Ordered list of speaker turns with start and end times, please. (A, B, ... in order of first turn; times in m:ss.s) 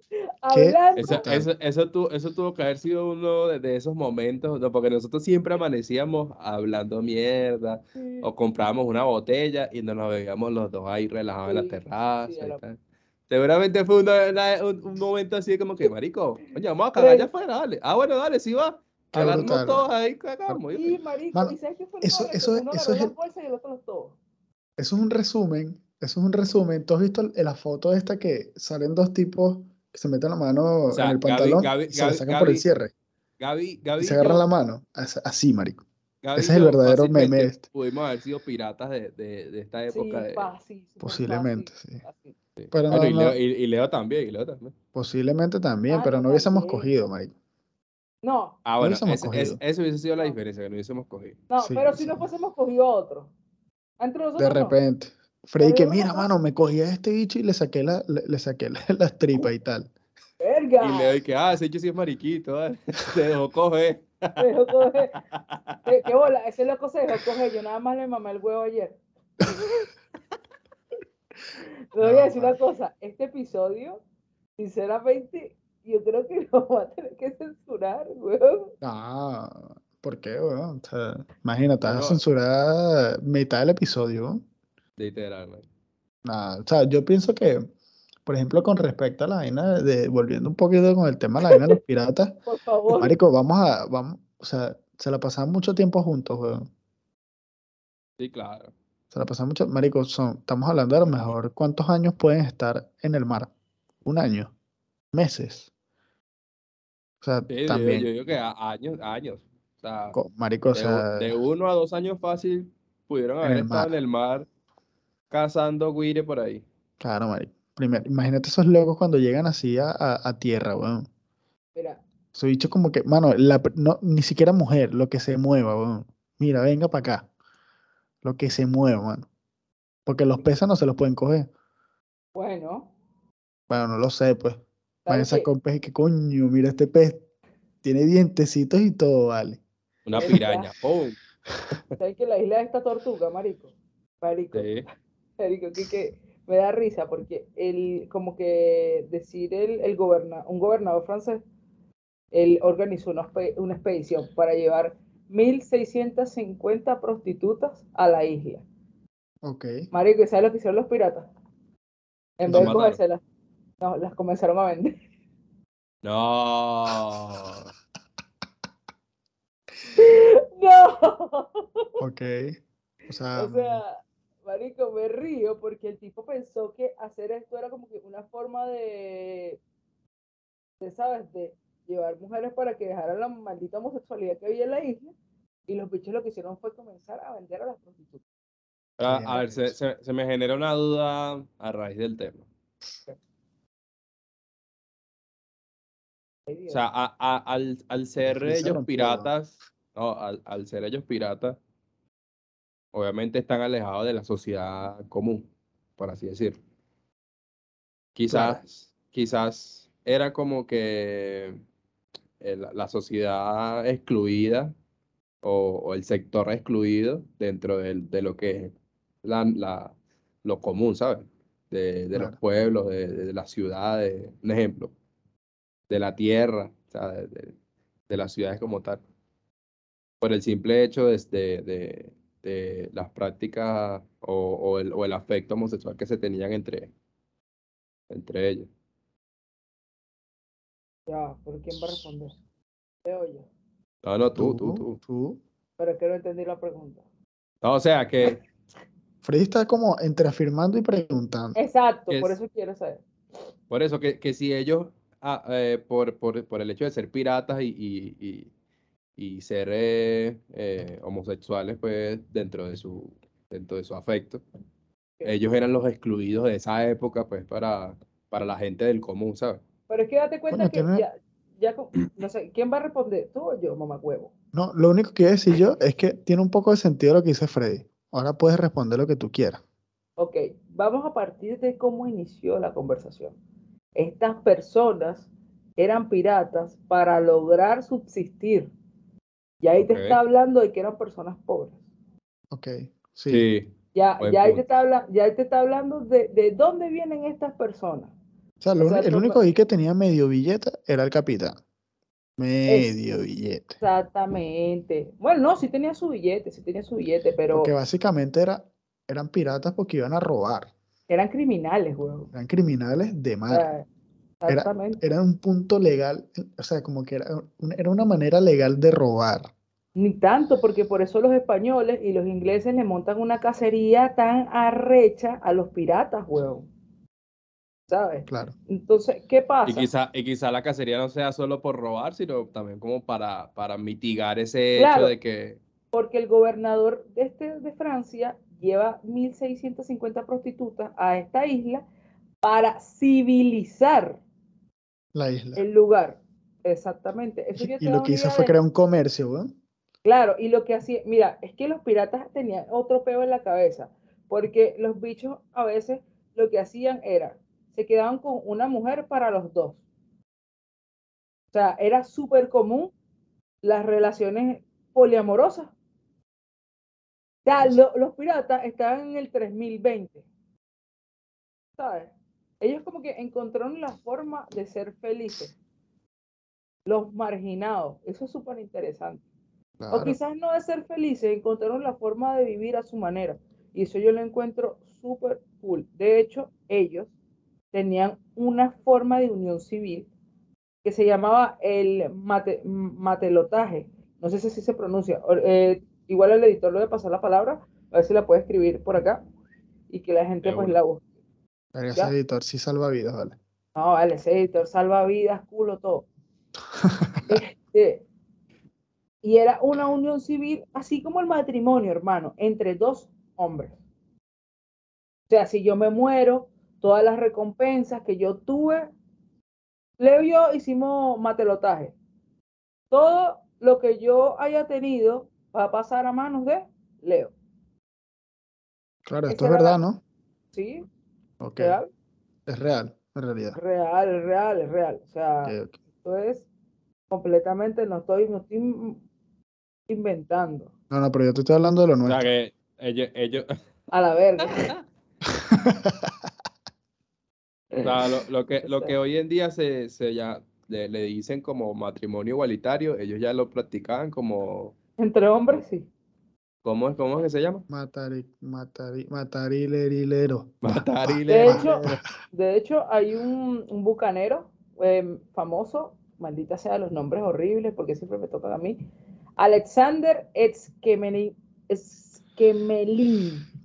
0:00.4-0:01.3 A
0:00.5-0:01.5 B
0:01.0-0:21.0 C
0:08.0-0:08.3 A
0:11.5-0:12.6 A
0:17.0-0:17.3 A
0:19.1-0:19.9 B
0:20.7-0:24.2 A
0:21.3-0:23.1 B
0:24.8-0:32.9 B
0:30.9-0:32.6 C
0:33.4-0:34.4 C
0:34.0-0:35.8 B
0:36.2-0:40.5 C
0:36.4-0:37.6 B
0:39.9-0:42.4 A
0:41.0-0:42.0 B
0:42.6-0:44.7 C
0:42.7-0:43.4 B
0:45.0-0:47.3 B
0:45.9-0:47.0 A
0:48.2-0:48.6 A
0:48.6-0:51.4 C
0:48.8-0:49.6 B
0:51.5-0:53.3 A
0:51.6-0:52.2 B
0:54.0-0:54.8 A
0:54.4-0:59.9 B
0:55.6-0:56.3 A
1:00.4-1:01.2 A
1:00.8-1:04.4 C
1:04.4-1:05.2 A
1:05.2-1:05.8 C
1:05.9-1:09.0 A
1:11.9-1:14.0 A
1:12.0-1:12.6 B
1:14.6-1:18.7 A
1:18.8-1:24.4 B
1:21.8-1:22.2 C
1:25.0-1:25.7 C
1:26.2-1:27.6 B
1:28.3-1:32.4 B
1:32.5-1:33.2 A
1:32.9-1:36.7 B
1:38.2-1:38.7 C
1:39.1-1:43.5 B
1:44.0-1:44.5 B
1:45.1-1:45.7 B
1:47.2-1:48.1 B
1:47.5-1:50.2 C
1:50.1-1:51.3 B
1:50.8-1:54.5 C
1:53.4-1:53.9 B
1:55.3-1:56.6 C
1:57.0-2:01.1 B
2:01.8-2:02.0 A
2:02.4-2:07.3 B
2:08.2-2:09.3 B
2:10.1-2:11.5 B
2:12.4-2:12.9 A
2:13.7-2:17.2 B
2:15.1-2:15.5 A
2:17.8-2:19.6 B
2:20.1-2:21.2 C
2:20.2-2:20.7 A
2:22.0-2:24.7 A
2:24.5-2:24.8 C
2:25.4-2:31.4 A
2:32.3-2:38.6 A
2:39.4-2:39.9 B
2:39.9-2:41.3 A
2:42.4-2:43.2 A
2:42.5-2:42.8 B
2:42.5-2:43.0 C
2:43.8-2:45.0 A
2:46.0-2:47.7 C
2:50.0-2:52.0 A
2:52.0-2:52.6 B
2:53.1-2:53.8 B
2:53.4-2:59.6 A
3:00.8-3:05.1 A
3:05.7-3:08.2 A
3:09.0-3:12.5 C
3:09.0-3:09.8 B
3:16.5-3:16.8 A
3:16.7-3:21.6 C
3:18.2-3:19.3 B
3:22.9-3:26.6 C
3:28.2-3:31.6 C
3:28.3-3:28.6 B
3:32.4-3:34.7 C
3:35.4-3:38.7 C
3:39.2-3:44.9 C
3:45.9-3:47.6 C
3:48.1-3:49.0 C
3:50.2-3:56.9 C
3:58.1-3:58.7 C
4:01.1-4:02.4 A
4:03.0-4:03.5 A
4:04.0-4:05.0 C
4:04.3-4:05.4 B
4:05.8-4:07.0 A
4:07.6-4:08.4 C
4:09.2-4:11.6 B
4:11.6-4:13.0 A
4:12.1-4:12.4 C
4:13.7-4:18.5 C
4:19.2-4:24.4 C
4:25.2-4:29.6 C
4:29.9-4:34.3 A
4:30.5-4:31.0 B
4:34.5-4:39.6 B
4:40.2-4:43.4 A
4:44.0-4:48.7 A
4:49.6-4:51.8 A
4:49.8-4:50.2 C
4:52.5-4:53.5 B
4:53.3-4:54.6 C
4:53.9-4:58.1 A
4:58.6-5:01.6 B
4:58.8-4:59.4 A
5:02.4-5:03.8 B
5:02.7-5:02.9 A
5:03.8-5:07.7 A
5:07.5-5:10.7 B
5:11.1-5:12.3 A
5:12.3-5:13.7 B
5:13.5-5:13.8 A
5:14.4-5:15.0 A
5:14.5-5:19.5 B
5:20.0-5:26.7 A
5:27.9-5:29.9 A
5:28.3-5:28.5 B
5:29.7-5:35.6 C
5:34.8-5:35.1 A
5:35.9-5:41.8 A
5:42.4-5:44.2 A
5:45.2-5:45.6 B
5:45.6-5:48.6 A
5:47.6-5:49.5 B
5:50.0-5:59.8 A
6:01.5-6:02.9 A
6:03.6-6:05.7 A
6:07.4-6:10.2 A
6:11.8-6:15.6 A
6:16.9-6:19.2 A
6:19.8-6:20.2 B
6:19.9-6:27.1 A
6:27.7-6:30.1 A
6:30.8-6:39.2 A
6:39.9-6:41.0 A
6:40.4-6:40.8 C
6:41.8-6:43.4 B
6:43.8-6:46.1 A
6:46.9-6:47.4 B
6:47.3-6:48.0 A
6:49.2-6:53.8 A
6:55.3-6:58.9 A
7:00.0-7:02.0 A
7:02.9-7:07.3 A
7:09.1-7:10.0 B
7:09.3-7:09.8 A
7:10.5-7:10.9 A
7:11.4-7:11.8 B
7:11.6-7:11.9 A
7:12.5-7:13.6 B
7:13.6-7:16.5 A
7:15.4-7:15.8 B
7:17.1-7:19.0 A
7:19.9-7:20.7 A
7:20.9-7:22.2 B
7:22.0-7:23.5 C
7:23.9-7:24.7 A
7:25.5-7:26.1 B
7:27.7-7:28.0 A
7:27.8-7:34.8 C
7:28.6-7:28.9 A
7:35.0-7:35.9 A
7:36.6-7:37.6 C
7:37.7-7:42.0 B
7:40.6-7:42.0 C
7:41.3-7:48.8 A
7:49.4-7:53.5 A